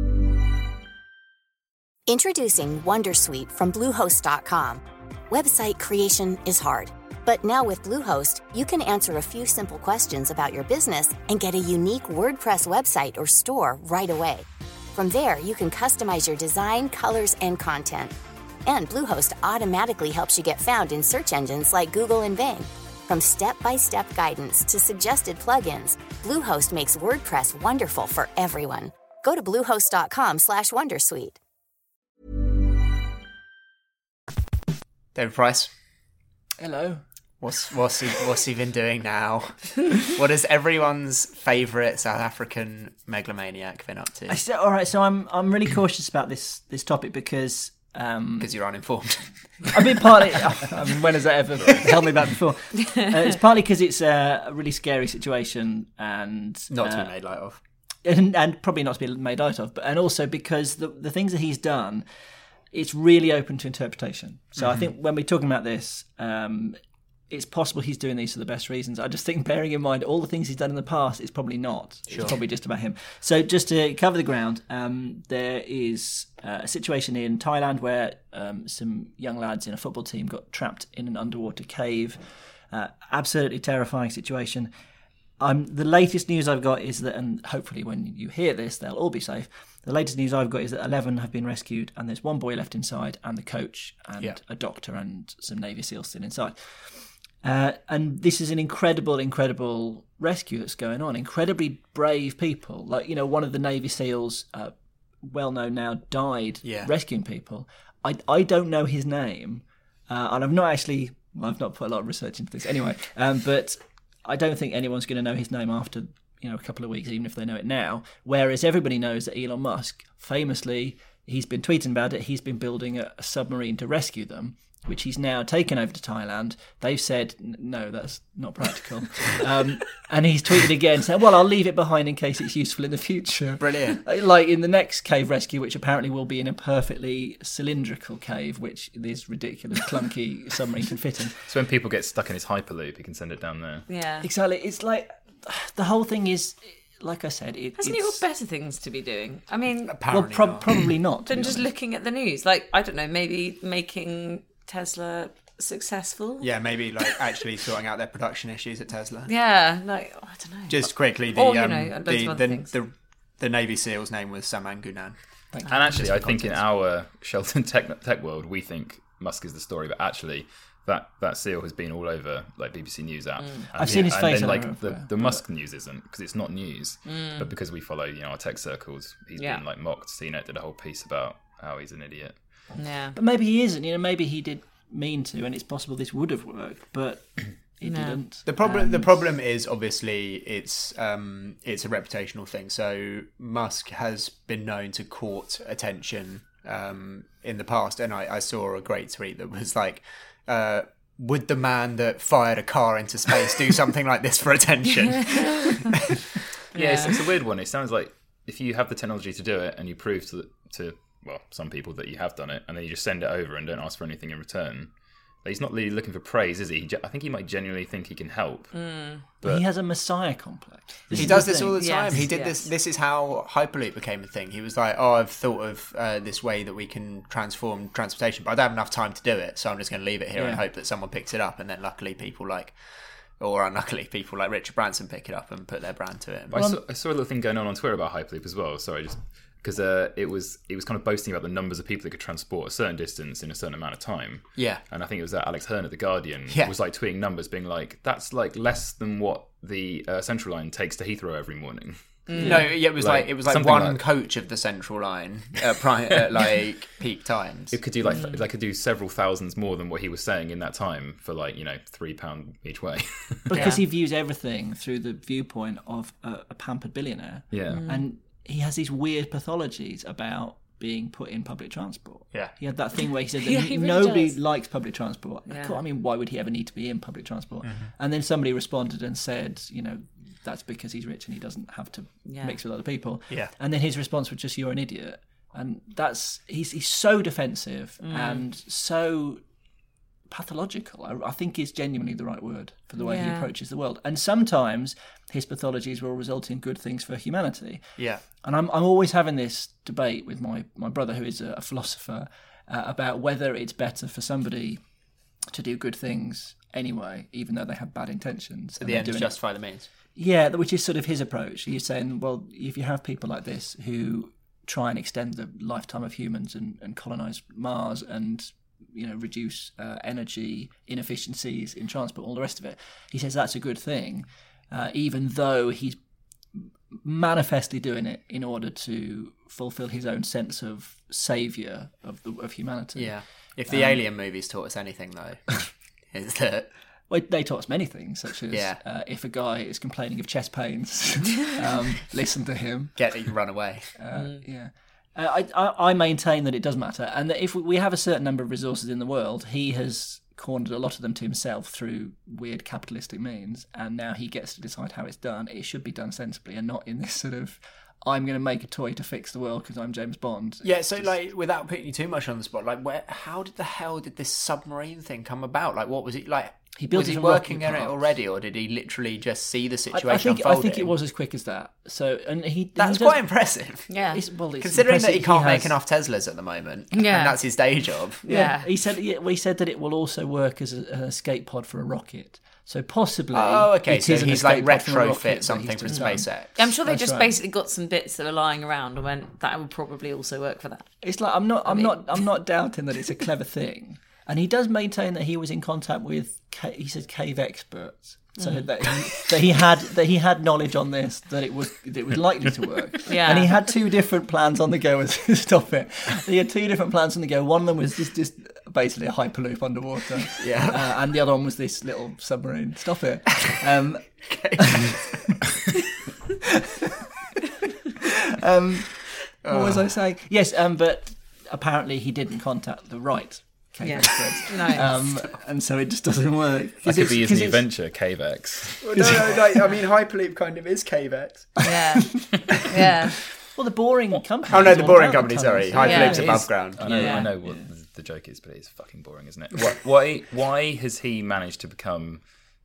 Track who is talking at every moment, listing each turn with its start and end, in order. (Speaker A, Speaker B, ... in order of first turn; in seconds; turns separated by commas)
Speaker A: 2.1-31.4, Speaker B: 35.1-35.7, Speaker C: 36.6-37.0, Speaker B: 37.4-44.4, Speaker C: 44.3-48.6, Speaker B: 48.4-49.7, Speaker C: 49.7-57.2, Speaker B: 56.7-57.6, Speaker C: 58.0-62.1, Speaker C: 62.7-84.7, Speaker B: 64.6-64.9, Speaker B: 72.1-72.4, Speaker C: 85.4-141.5, Speaker B: 106.6-106.9, Speaker B: 133.6-134.0, Speaker D: 141.5-143.9, Speaker E: 143.9-144.3, Speaker C: 144.2-148.2, Speaker E: 147.8-150.0, Speaker B: 149.9-150.8, Speaker C: 150.1-151.7, Speaker E: 151.3-156.5, Speaker B: 156.4-159.3, Speaker E: 159.3-162.7, Speaker B: 160.7-165.2, Speaker C: 165.5-166.6, Speaker E: 165.7-166.0, Speaker D: 165.7-182.7, Speaker B: 166.0-166.3, Speaker E: 173.4-173.7, Speaker C: 173.7-175.4, Speaker E: 177.0-177.5, Speaker E: 179.4-179.6, Speaker E: 182.8-183.2, Speaker C: 183.1-189.2, Speaker E: 187.8-188.9, Speaker B: 188.4-206.2, Speaker E: 205.0-205.8, Speaker E: 206.7-207.2, Speaker D: 206.7-219.7, Speaker E: 218.7-219.3, Speaker C: 219.4-222.2, Speaker D: 221.1-221.4, Speaker B: 221.1-232.8, Speaker E: 221.7-222.7, Speaker C: 230.3-230.6, Speaker B: 233.4-236.5, Speaker D: 236.5-254.0, Speaker C: 236.5-236.8, Speaker B: 244.6-244.8, Speaker E: 252.3-252.8, Speaker C: 252.4-252.7, Speaker B: 252.4-257.9, Speaker D: 257.7-263.6, Speaker E: 258.1-258.4, Speaker C: 263.5-289.4, Speaker E: 263.6-263.8, Speaker D: 267.5-267.8, Speaker E: 267.7-268.1, Speaker E: 273.4-274.4, Speaker E: 275.5-275.8, Speaker B: 277.6-277.9, Speaker E: 282.2-282.6, Speaker E: 288.0-288.4, Speaker C: 290.3-304.9, Speaker E: 293.0-293.5, Speaker B: 298.0-298.2, Speaker C: 305.5-309.6, Speaker B: 308.8-309.9, Speaker C: 310.1-326.0, Speaker C: 326.5-334.1, Speaker B: 333.0-336.7, Speaker C: 337.1-343.4, Speaker B: 338.5-338.8, Speaker B: 342.9-344.0, Speaker C: 344.0-361.1, Speaker E: 344.1-344.4, Speaker B: 360.6-370.9, Speaker C: 366.8-368.0, Speaker C: 369.9-375.8, Speaker B: 372.8-378.2, Speaker E: 373.9-374.2, Speaker E: 376.9-378.7, Speaker C: 378.3-387.4, Speaker B: 383.3-386.6, Speaker E: 385.9-392.2, Speaker C: 391.0-414.9, Speaker E: 398.4-398.7, Speaker E: 403.1-403.6, Speaker B: 410.4-411.0, Speaker B: 414.2-415.2, Speaker C: 418.4-427.7, Speaker B: 419.4-419.9, Speaker E: 423.8-425.0, Speaker D: 426.8-428.8, Speaker B: 428.8-431.7, Speaker C: 428.9-429.5, Speaker E: 431.6-433.2, Speaker C: 433.5-437.7, Speaker B: 434.5-436.9, Speaker E: 435.8-437.3, Speaker D: 436.8-442.3